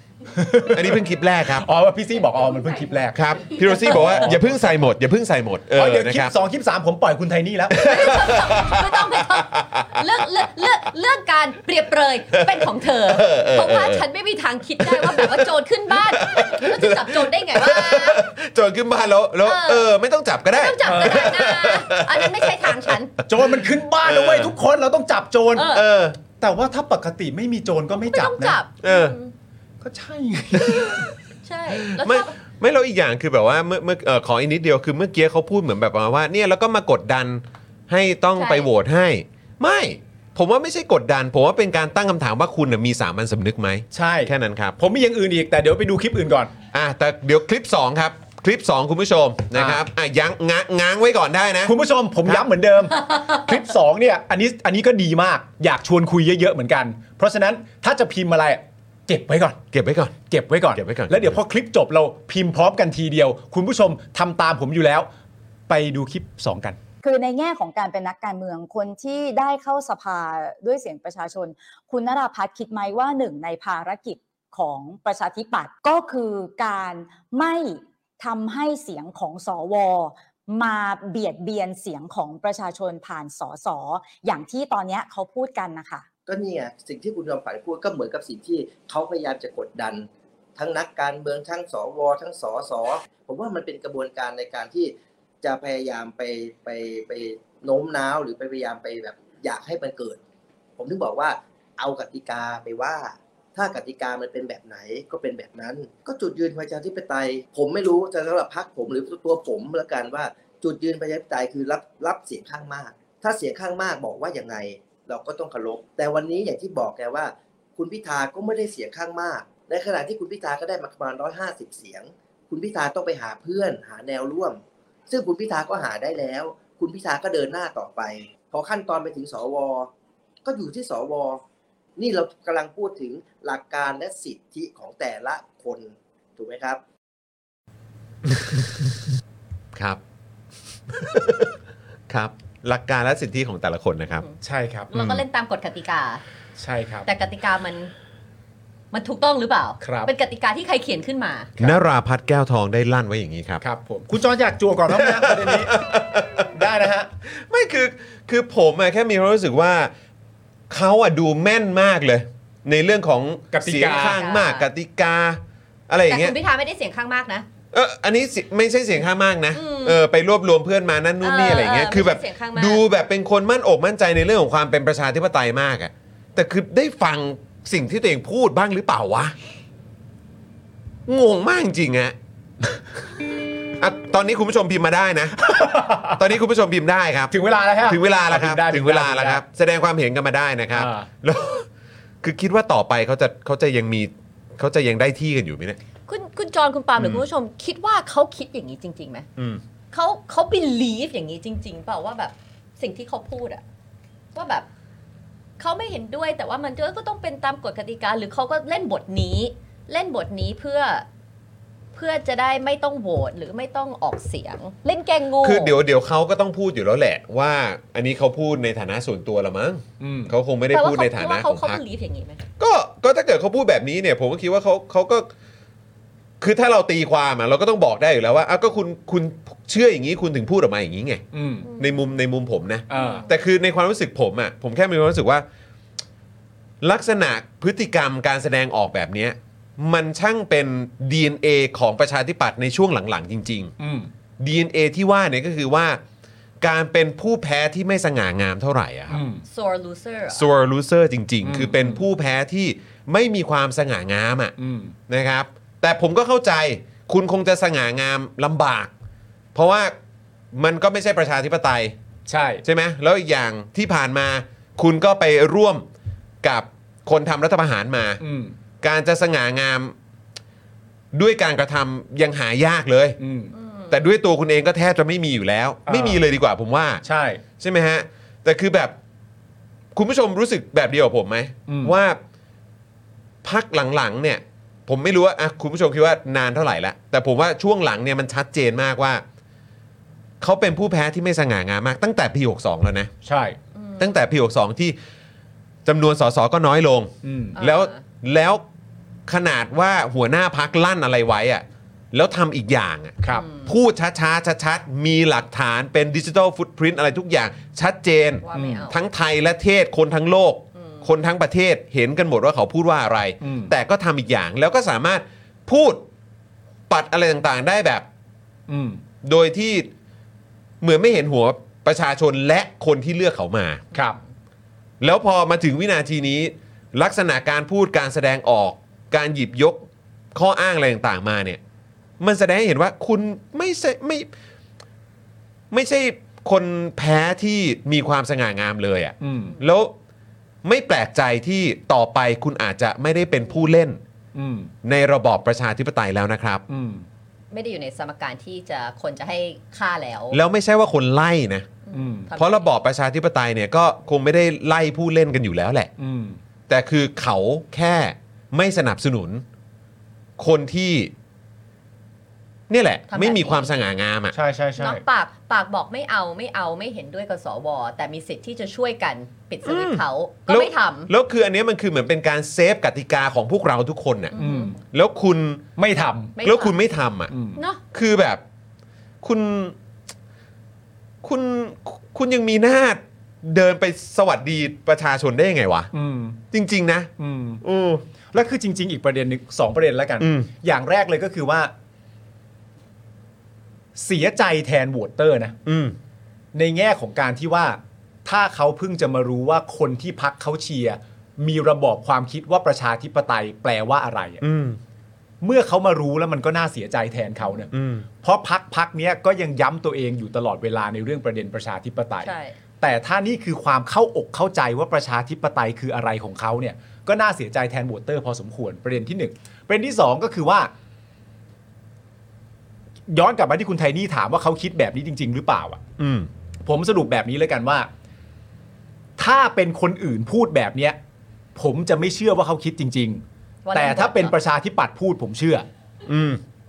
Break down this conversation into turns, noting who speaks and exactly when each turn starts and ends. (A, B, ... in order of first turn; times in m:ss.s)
0:00.3-0:04.6 A
0:00.7-0:01.7 B
0:03.1-0:06.4 B
0:05.8-0:07.8 A
0:07.7-0:10.1 B
0:07.8-0:18.3 C
0:12.3-0:14.0 B
0:14.8-0:24.6 B
0:19.4-0:19.9 C
0:20.5-0:23.2 C
0:20.8-0:21.3 A
0:23.3-0:25.8 A
0:25.6-0:25.8 C
0:25.6-0:26.2 B
0:26.4-0:28.6 A
0:28.0-0:29.3 C
0:28.8-0:29.2 B
0:29.8-0:31.1 A
0:30.7-0:31.1 B
0:31.4-0:32.4 C
0:31.7-0:44.8 B
0:38.4-0:38.7 C
0:43.9-0:46.5 A
0:46.7-0:52.4 B
0:49.5-0:49.8 A
0:51.6-0:59.6 A
0:59.7-1:00.2 B
1:00.3-1:05.1 A
1:00.7-1:01.4 B
1:05.7-1:06.8 A
1:07.0-1:26.1 D
1:26.3-1:40.2 E
1:40.8-2:09.9 E
2:10.4-2:11.4 E
2:12.0-2:16.8 E
2:18.3-2:18.7 B
2:19.7-2:20.0 B
2:20.9-2:21.6 B
2:22.1-2:24.2 B
2:24.4-2:24.9 A
2:24.9-2:26.2 C
2:24.9-2:25.2 B
2:26.6-2:27.1 A
2:27.1-2:27.9 C
2:28.9-2:31.5 C
2:29.8-2:30.1 A
2:31.6-2:33.6 B
2:33.6-2:35.7 A
2:34.9-2:36.7 B
2:36.5-2:37.1 A
2:37.3-2:39.9 B
2:40.7-2:46.3 B
2:43.5-2:44.2 A
2:43.8-2:44.7 C
2:46.1-2:47.5 C
2:47.7-2:59.4 B
2:49.5-2:50.0 C
2:51.2-2:52.8 C
3:01.1-3:02.2 B
3:03.8-3:05.6 B
3:05.4-3:06.2 A
3:06.1-3:11.7 B
3:07.3-3:09.4 A
3:10.7-3:11.1 A
3:12.2-3:15.8 B
3:16.1-3:19.3 C
3:17.0-3:17.2 B
3:19.4-3:19.6 B
3:19.9-3:23.6 C
3:24.4-3:24.7 C
3:25.6-3:31.1 C
3:31.9-3:35.8 C
3:35.4-3:41.8 B
3:40.0-3:40.3 A
3:40.7-3:42.4 C
3:42.6-3:45.3 B
3:46.4-3:51.2 B
3:51.3-3:51.7 A
3:51.7-3:52.0 C
3:51.8-3:55.5 B
3:52.9-3:53.2 A
3:52.9-3:53.3 C
3:56.8-4:03.7 B
4:03.8-4:04.1 A
4:04.4-4:06.0 B
4:06.6-4:09.2 B
4:09.1-4:09.4 A
4:09.5-4:10.5 C
4:10.3-4:14.6 B
4:11.4-4:12.0 A
4:14.6-4:15.0 A
4:15.1-4:18.9 B
4:19.6-4:19.9 B
4:20.5-4:22.0 B
4:22.3-4:22.6 A
4:22.6-4:25.9 B
4:26.4-4:28.2 B
4:28.2-4:28.6 A
4:28.8-4:30.0 B
4:31.1-4:33.2 B
4:33.2-4:33.5 A
4:33.6-4:34.0 C
4:33.9-4:37.0 B
4:35.9-4:36.2 A
4:37.0-4:37.4 A
4:37.6-4:39.0 B
4:40.0-4:42.2 B
4:41.7-4:42.0 A
4:43.4-4:49.2 B
4:50.4-4:53.1 B
4:53.2-4:53.6 A
4:53.8-4:54.1 C
4:54.0-4:55.0 B
4:55.8-4:58.6 B
4:57.2-4:57.6 A
4:57.6-4:58.0 C
4:59.3-5:16.0 B
5:03.2-5:03.5 A
5:03.3-5:03.7 C
5:08.4-5:09.0 C
5:08.5-5:08.8 A
5:10.8-5:11.1 C
5:13.4-5:13.7 A
5:16.9-5:18.1 B
5:18.7-5:19.0 A
5:19.2-5:19.9 B
5:20.8-5:23.8 B
5:23.9-5:24.2 A
5:25.0-5:31.6 B
5:32.2-5:34.3 B
5:35.7-5:39.9 B
5:39.2-5:39.6 A
5:40.6-5:44.0 B
5:44.4-5:44.7 A
5:44.8-5:46.7 B
5:46.7-5:47.1 A
5:47.5-5:50.4 C
5:50.3-5:51.7 B
5:51.9-5:52.7 C
5:51.9-5:52.3 A
5:52.3-5:55.9 B
5:56.0-5:56.4 A
5:56.7-5:59.4 B
6:00.4-6:01.1 B
6:02.7-6:04.4 B
6:03.1-6:03.7 C
6:04.3-6:05.0 A
6:04.8-6:11.1 C
6:09.6-6:15.7 B
6:14.3-6:14.8 C
6:14.4-6:14.8 A
6:15.8-6:16.4 A
6:16.4-6:16.8 C
6:16.4-6:17.3 B
6:17.3-6:17.6 A
6:17.6-6:17.8 C
6:17.9-6:18.4 B
6:19.2-6:19.8 B
6:21.2-6:25.9 B
6:25.9-6:26.4 A
6:26.5-6:28.0 B
6:27.2-6:27.6 A
6:28.3-6:31.7 A
6:30.2-6:30.5 B
6:34.0-6:35.6 A
6:35.7-6:36.0 B
6:36.5-6:44.4 A
6:44.4-6:44.8 B
6:45.4-7:00.7 A
6:47.7-6:48.1 B
6:52.2-6:52.6 C
7:03.1-7:05.8 A
7:06.0-7:06.3 B
7:06.6-7:07.9 A
7:09.2-7:11.0 A
7:11.6-7:13.2 A
7:13.6-7:14.4 C
7:13.7-7:15.7 A
7:16.1-7:16.4 B